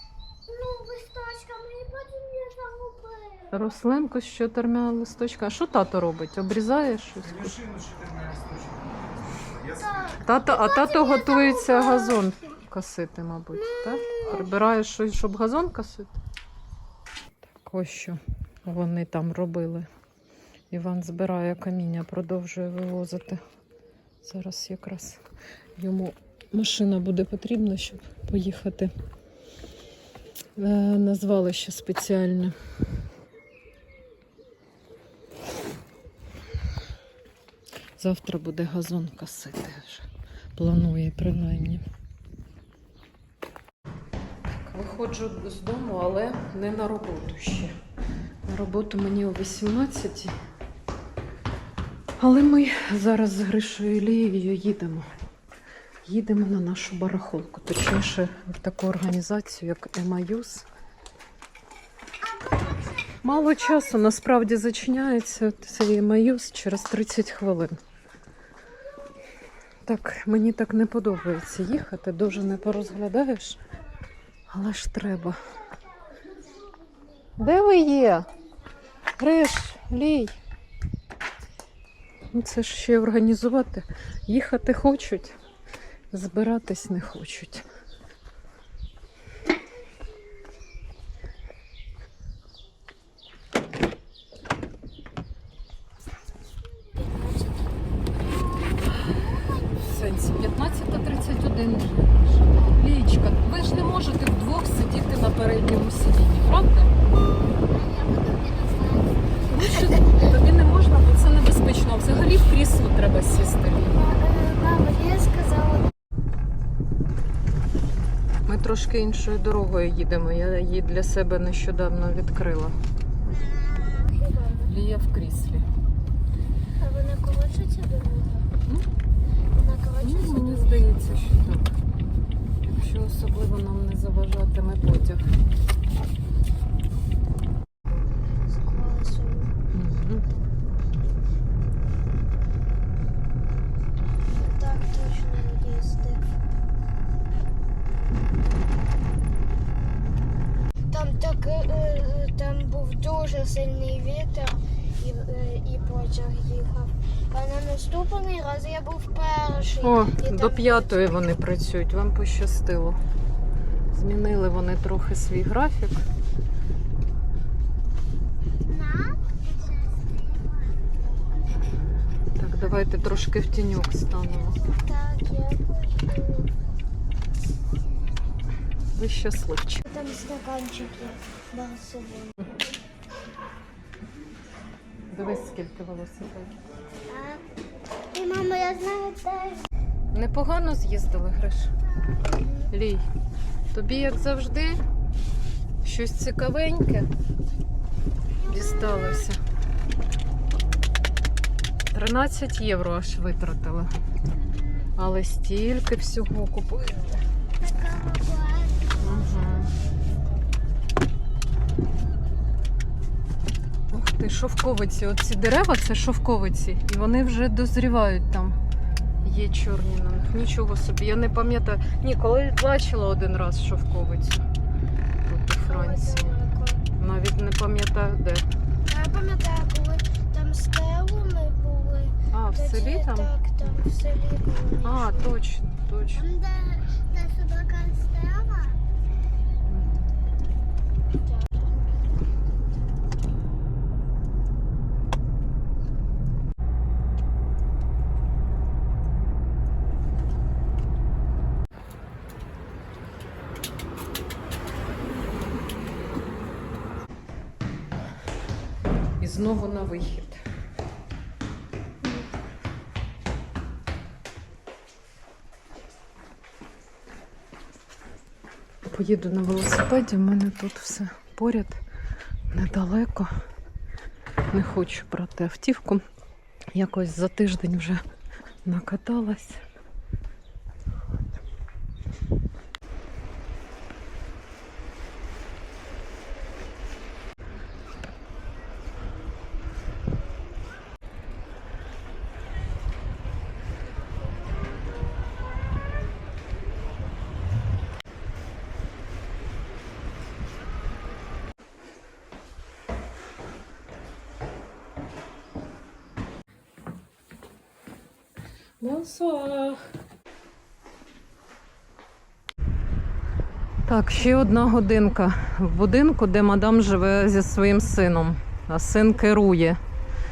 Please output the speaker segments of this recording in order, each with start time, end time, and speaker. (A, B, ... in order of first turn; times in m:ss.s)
0:00.3-0:03.6 A
0:03.5-0:07.9 B
0:09.6-0:12.3 A
0:10.2-0:16.2 B
0:13.9-0:14.2 A
0:17.5-0:19.9 B
0:20.7-0:23.4 B
0:24.2-0:25.2 B
0:25.8-0:28.9 B
0:30.6-0:32.6 B
0:38.0-0:41.8 B
0:44.5-0:47.7 B
0:48.4-0:50.4 B
0:52.2-0:55.1 B
0:56.0-1:00.6 B
1:02.2-1:03.8 A
1:03.2-1:07.8 B
1:09.8-1:13.6 B
1:14.5-1:15.4 B
1:17.4-1:18.3 B
1:19.2-1:20.4 B
1:22.3-1:25.4 B
1:26.1-1:27.6 B
1:36.9-1:37.8 A
1:39.1-1:39.7 A
1:39.7-1:46.9 B
1:47.6-1:50.2 A
1:49.5-1:54.0 B
1:53.9-1:55.9 A
1:58.5-2:02.8 B
2:03.3-2:04.7 A
2:04.7-2:05.6 B
2:06.8-2:08.5 A
2:09.5-2:11.2 A
2:10.0-2:11.7 B
2:12.6-2:15.3 B
2:18.1-2:19.5 A
2:19.7-2:20.2 B
2:24.3-2:26.2 A
2:30.9-2:41.2 A
2:39.8-2:43.0 B
2:43.9-2:46.0 B
2:48.6-2:50.9 A
2:52.4-2:54.6 B
2:54.1-2:56.5 A
2:58.9-2:59.8 B
2:59.8-3:02.5 A
3:05.1-3:06.6 B
3:07.1-3:07.4 A
3:08.1-3:09.7 A
3:10.1-3:11.7 B
3:12.2-3:12.7 A
3:12.7-3:13.0 B
3:13.7-3:14.8 B
3:15.8-3:17.1 B
3:18.4-3:19.3 A
3:18.5-3:19.4 B
3:21.9-3:23.9 B
3:25.0-3:27.2 B
3:27.6-3:29.9 A
3:29.0-3:29.7 B
3:33.9-3:38.6 B
3:39.2-3:44.4 B
3:45.2-3:46.4 B
3:45.6-3:46.8 A
3:47.0-3:48.5 B
3:48.9-3:55.3 A
3:52.3-3:53.3 B
3:54.8-3:56.2 B
3:56.1-3:58.8 A
3:59.7-4:00.1 B
4:01.1-4:02.0 A
4:19.2-4:20.4 B
4:28.9-4:31.8 B
4:32.5-4:33.3 B
4:34.5-4:36.0 B
4:36.7-4:38.0 B
4:38.6-4:39.6 B
5:08.8-5:09.8 B
5:13.8-5:19.8 B